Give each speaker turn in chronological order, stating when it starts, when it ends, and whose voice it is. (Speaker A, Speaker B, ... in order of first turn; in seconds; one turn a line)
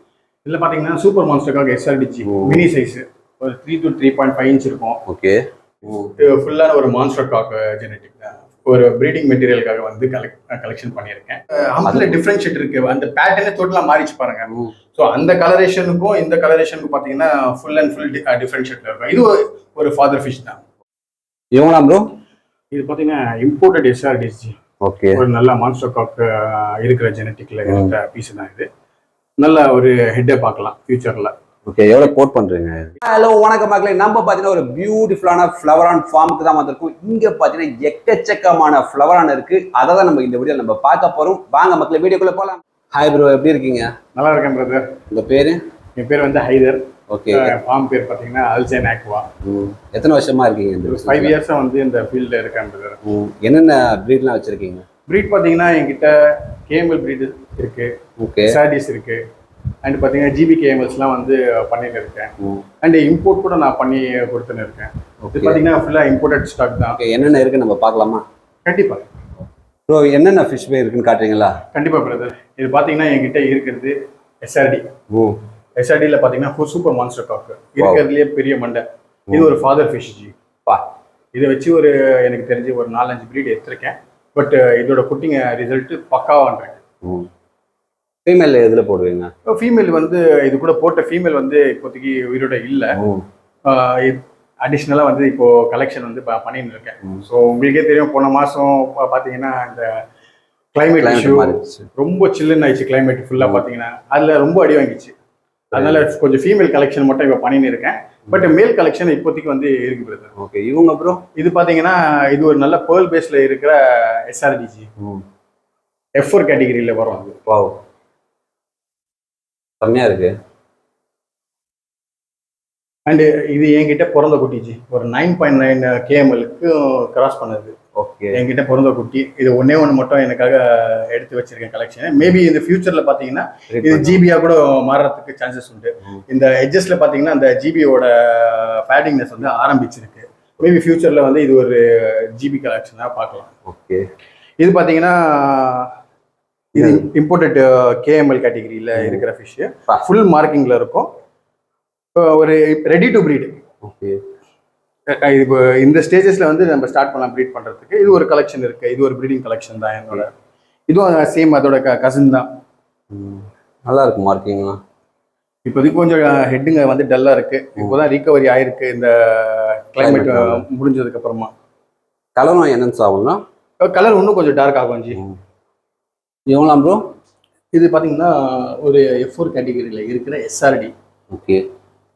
Speaker A: 0.4-5.0
Speaker B: 2.2-2.6
Speaker B: 5.1-6.2
Speaker A: 6.2-20.6
Speaker B: 11.8-12.2
Speaker B: 21.5-22.0
Speaker A: 22.7-24.5
Speaker B: 24.8-25.2
Speaker A: 25.1-28.7
Speaker B: 27.6-27.9
Speaker A: 29.4-31.3
Speaker B: 31.7-43.9
Speaker A: 44.2-45.0
Speaker B: 45.1-45.6
Speaker A: 46.0-49.3
Speaker B: 47.1-47.6
Speaker B: 49.4-51.3
Speaker A: 50.8-53.0
Speaker B: 53.0-54.9
Speaker A: 55.1-57.9
Speaker B: 58.2-58.6
Speaker A: 58.5-59.2
Speaker A: 59.8-67.3
Speaker B: 65.3-65.6
Speaker B: 66.9-68.2
Speaker A: 68.7-69.1
Speaker B: 69.9-71.5
Speaker A: 71.7-74.9
Speaker B: 75.1-75.4
Speaker A: 75.8-80.3
Speaker B: 77.8-78.0
Speaker A: 81.3-86.8
Speaker B: 87.0-87.3
Speaker B: 88.3-89.3
Speaker A: 89.5-93.0
Speaker B: 93.0-93.2
Speaker A: 93.7-100.0
Speaker A: 100.7-105.1
Speaker B: 101.0-101.9
Speaker B: 105.7-106.0
Speaker A: 105.7-110.3
Speaker B: 110.4-111.2
Speaker A: 111.4-114.9
Speaker B: 115.0-115.2
Speaker A: 116.2-117.4
Speaker B: 117.5-117.8
Speaker B: 119.8-120.3
Speaker A: 123.1-127.7
Speaker B: 128.0-128.4
Speaker A: 128.3-143.5
Speaker B: 133.7-134.2
Speaker B: 143.7-144.0
Speaker A: 144.6-145.9
Speaker A: 146.7-151.1
Speaker B: 146.8-147.1
Speaker B: 148.9-149.2
Speaker A: 152.2-153.6
Speaker B: 153.8-154.2
Speaker A: 155.1-160.3
Speaker A: 160.9-162.5
Speaker B: 163.1-164.8
Speaker A: 165.7-171.5
Speaker B: 170.0-170.7
Speaker B: 172.4-173.4
Speaker A: 173.8-175.2
Speaker B: 176.5-177.0
Speaker A: 177.7-180.9
Speaker B: 181.3-181.6